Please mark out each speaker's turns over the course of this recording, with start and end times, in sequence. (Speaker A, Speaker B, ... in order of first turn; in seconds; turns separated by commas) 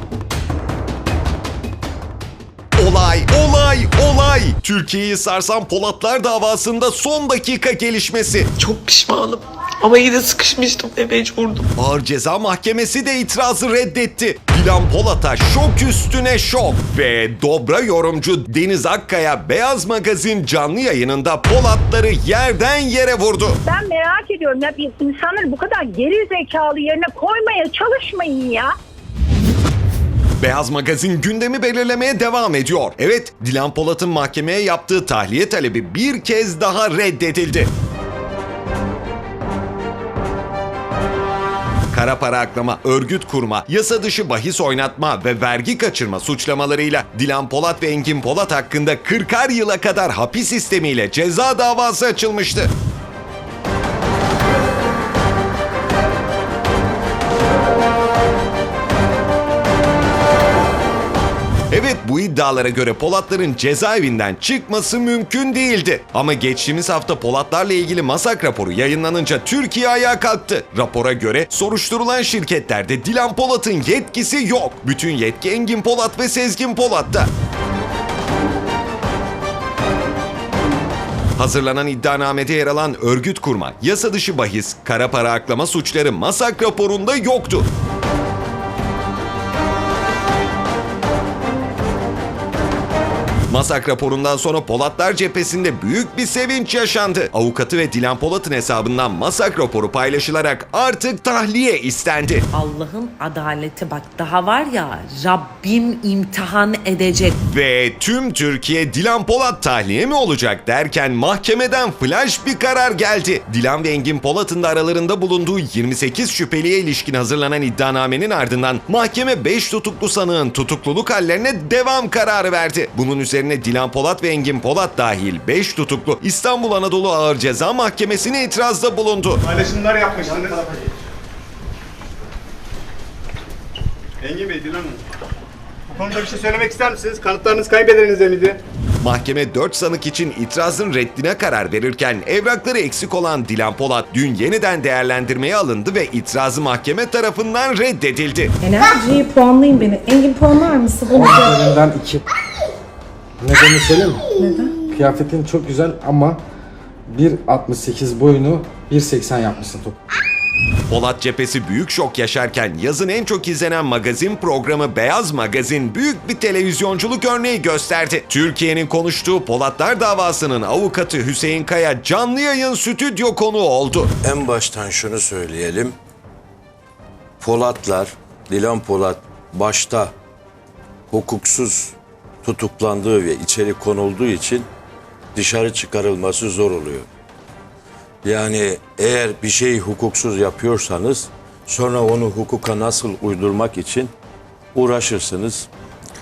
Speaker A: 2.8-8.5, Speaker B: 8.6-11.6, Speaker A: 11.8-23.6, Speaker C: 23.6-28.7, Speaker A: 30.4-37.7, Speaker A: 41.9-52.7, Speaker A: 61.7-77.3, Speaker A: 81.4-87.6, Speaker A: 93.5-102.4, Speaker D: 102.5-107.4, Speaker A: 107.5-129.4, Speaker E: 129.5-130.7, Speaker E: 134.2-135.0, Speaker E: 136.0-138.6, Speaker A: 139.0-148.5, Speaker F: 148.6-151.8, Speaker G: 151.1-152.2, Speaker G: 153.4-154.2, Speaker F: 154.4-154.9, Speaker G: 154.9-156.4, Speaker G: 157.1-160.0, Speaker A: 160.9-174.1, Speaker H: 174.2-176.0, Speaker H: 177.4-180.1, Speaker H: 181.1-184.7, Speaker H: 185.3-187.1, Speaker H: 188.2-194.1, Speaker H: 194.8-195.7